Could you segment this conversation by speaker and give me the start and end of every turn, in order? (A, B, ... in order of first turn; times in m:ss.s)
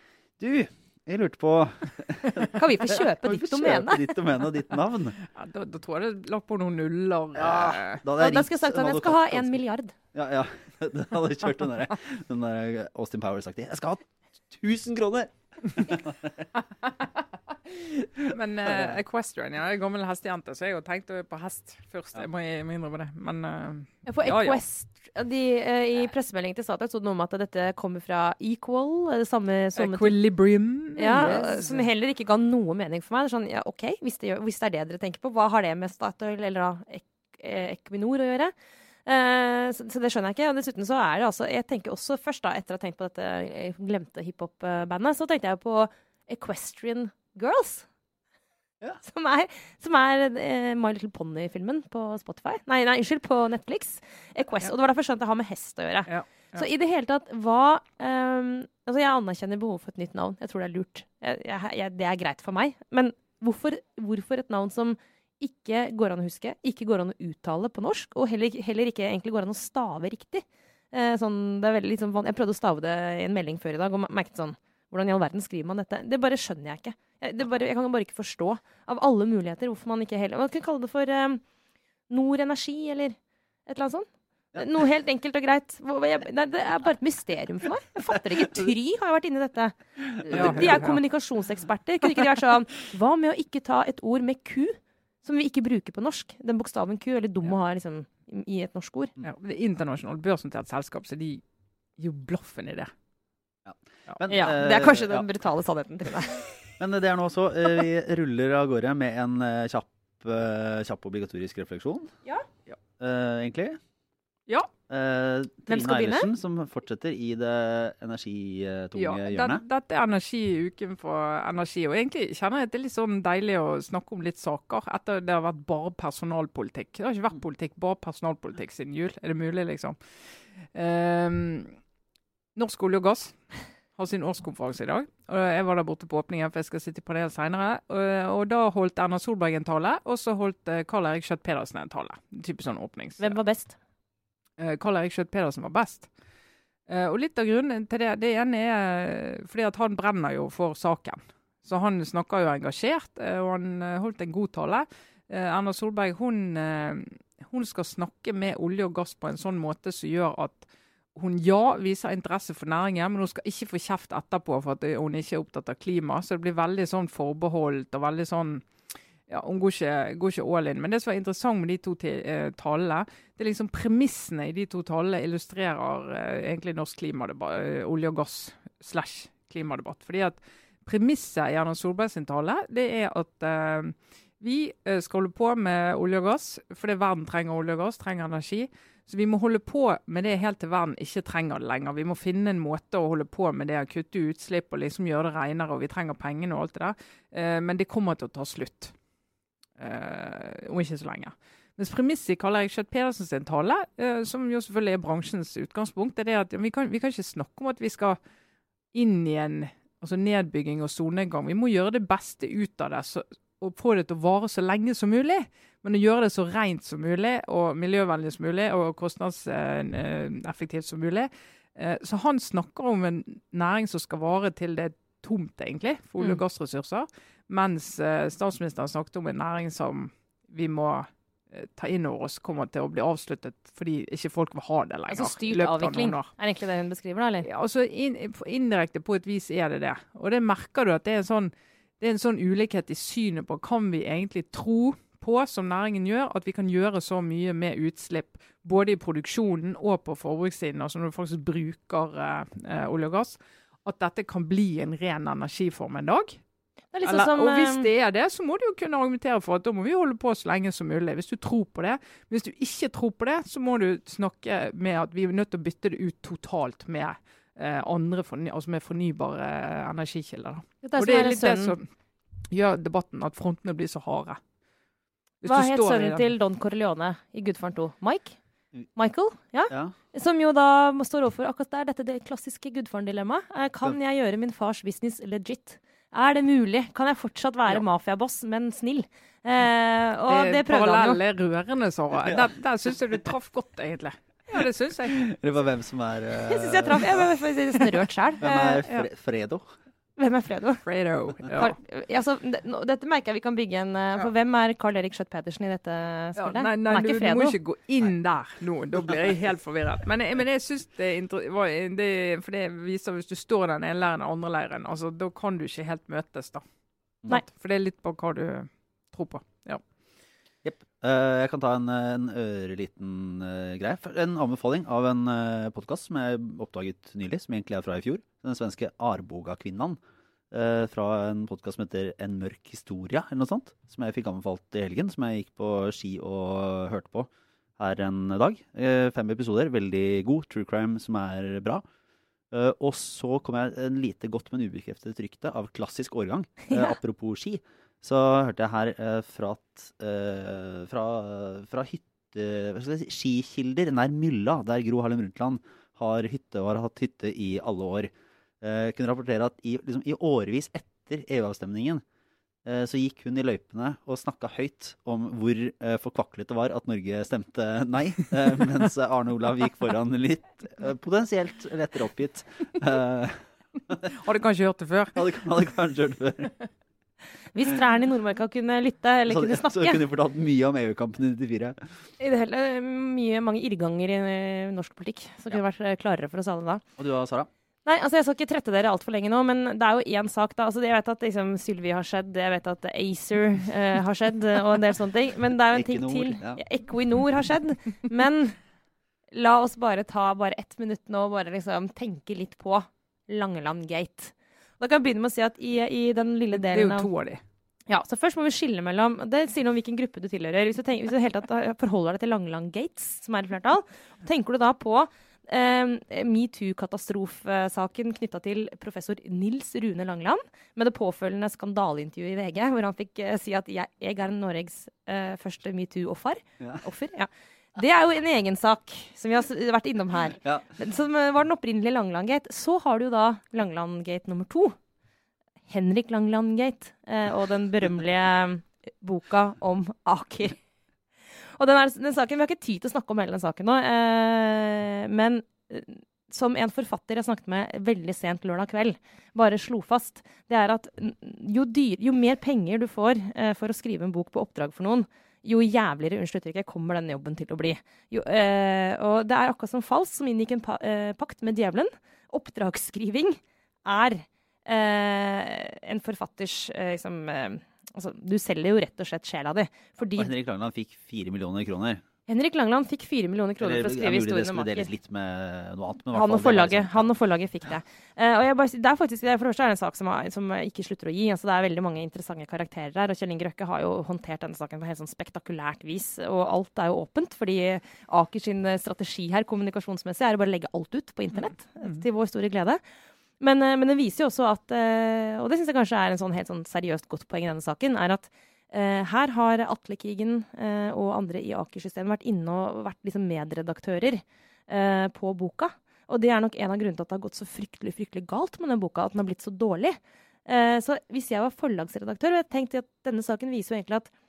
0:00.4-0:05.2 A
0:02.4-0:04.1 B
0:05.2-0:08.0 C
0:07.4-0:09.6 A
0:08.1-0:09.9 B
0:10.1-0:16.5 A
0:17.8-0:24.6 C
0:18.2-0:19.0 A
0:24.1-0:30.2 B
0:29.8-0:31.8 C
0:31.0-0:38.5 B
0:31.2-0:31.8 A
0:39.1-0:47.9 B
0:49.0-1:21.4 B
0:56.1-0:56.6 C
1:22.1-1:39.1 B
1:30.3-1:31.0 C
1:30.3-1:30.8 A
1:39.2-1:41.4 C
1:42.0-1:42.9 C
1:43.6-1:45.3 A
1:44.3-1:46.5 B
1:46.8-1:52.1 A
1:53.0-1:53.8 A
1:54.9-1:59.6 A
1:55.7-1:56.3 B
1:59.0-2:11.8 C
2:12.6-2:23.4 C
2:23.2-2:23.8 B
2:24.6-2:26.1 C
2:26.9-2:48.7 C
2:49.3-3:18.9 C
3:19.8-3:28.2 C
3:28.9-3:56.3 C
3:55.1-3:57.5 B
3:57.4-4:16.4 C
4:16.9-4:17.9 B
4:17.0-4:31.9 C
4:30.8-4:31.7 B
4:32.5-4:34.4 C
4:35.4-4:36.3 C
4:35.4-4:38.4 B
4:39.0-4:51.2 B
4:50.3-4:55.2 C
4:55.1-4:57.3 A
4:56.4-4:58.8 B
4:58.4-4:59.6 A
5:00.2-5:00.8 B
5:00.8-5:01.8 C
5:01.6-5:07.6 B
5:06.4-5:16.6 C
5:17.3-5:19.8 C
5:20.6-5:30.0 A
5:30.5-5:41.8 A
5:42.5-6:02.0 A
6:02.6-6:14.1 A
6:14.1-6:15.2 C
6:15.2-6:16.5 A
6:17.5-6:20.0 B
6:19.3-6:21.8 A
6:22.2-6:26.8 B
6:27.0-6:27.5 A
6:27.9-6:38.6 B
6:35.7-6:36.6 A
6:39.3-6:47.1 B
6:46.6-6:47.4 C
6:47.9-7:14.8 B
7:15.7-7:20.6 B
7:21.6-7:50.3 B
7:50.2-7:52.0 A
7:52.3-7:54.9 B
7:53.6-7:57.1 A
7:56.1-8:12.8 B
8:13.4-8:34.1 B